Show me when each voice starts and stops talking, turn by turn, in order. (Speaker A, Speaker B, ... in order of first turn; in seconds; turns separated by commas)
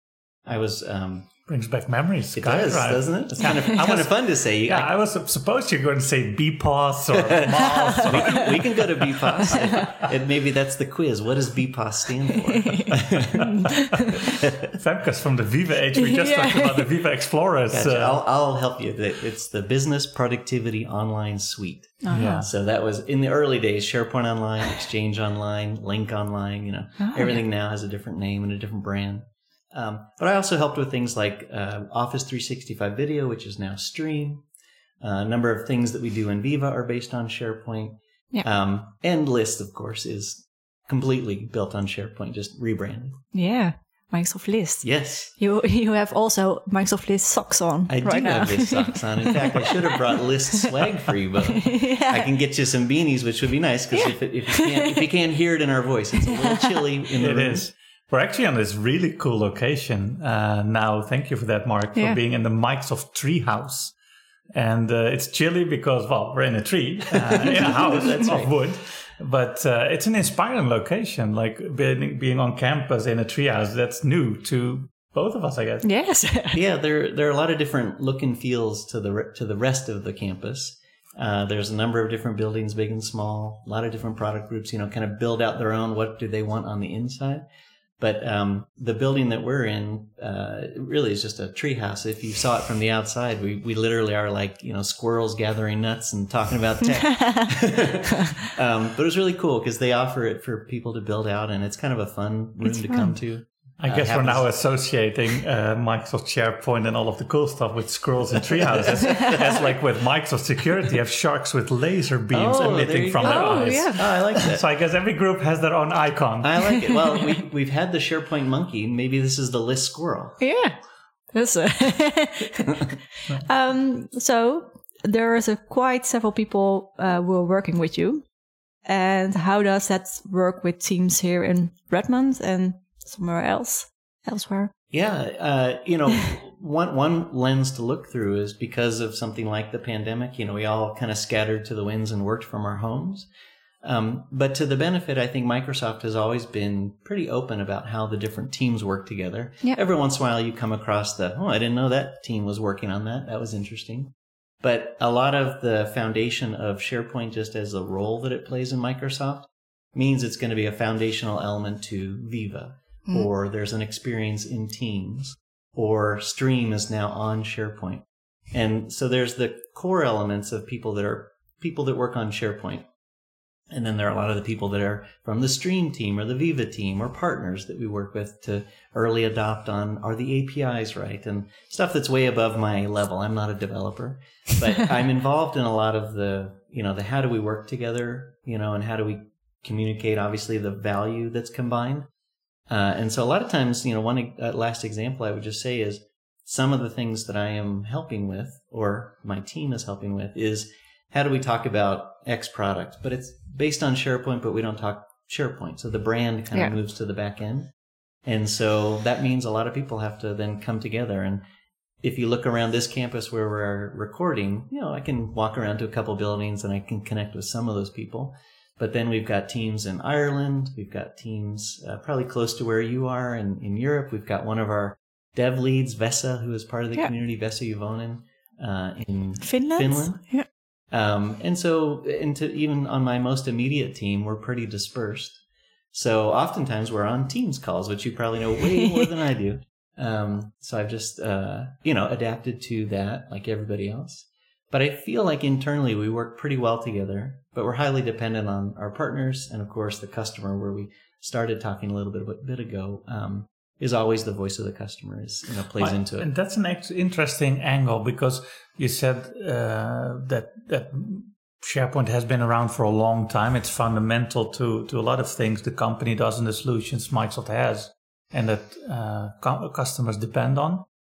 Speaker A: 0.5-1.3, Speaker B: 1.5-10.0, Speaker A: 2.4-4.9, Speaker A: 7.2-13.4, Speaker C: 7.7-8.5, Speaker C: 12.6-14.2, Speaker B: 13.4-18.2, Speaker A: 14.3-14.7, Speaker C: 16.0-16.9, Speaker A: 17.7-34.5, Speaker C: 22.0-22.4, Speaker B: 22.1-22.5, Speaker C: 27.0-27.4, Speaker A: 35.0-43.2, Speaker C: 43.3-50.2, Speaker A: 44.8-45.3, Speaker A: 47.9-57.7, Speaker C: 51.5-52.3, Speaker C: 53.9-54.9, Speaker C: 56.2-56.8, Speaker B: 57.2-64.0, Speaker B: 64.5-75.9, Speaker A: 67.3-68.6, Speaker C: 75.8-76.6, Speaker A: 76.5-87.4, Speaker A: 88.0-104.5, Speaker C: 102.6-103.2, Speaker B: 103.8-116.7, Speaker A: 108.9-109.7, Speaker A: 112.3-114.6, Speaker C: 112.5-114.2, Speaker A: 116.4-120.4, Speaker C: 120.4-128.3, Speaker C: 128.8-134.7, Speaker A: 134.9-143.3, Speaker A: 143.8-172.9, Speaker A: 173.7-192.1, Speaker A: 192.7-207.7, Speaker A: 208.2-211.4, Speaker A: 212.0-256.3, Speaker C: 229.4-230.5, Speaker B: 255.8-270.9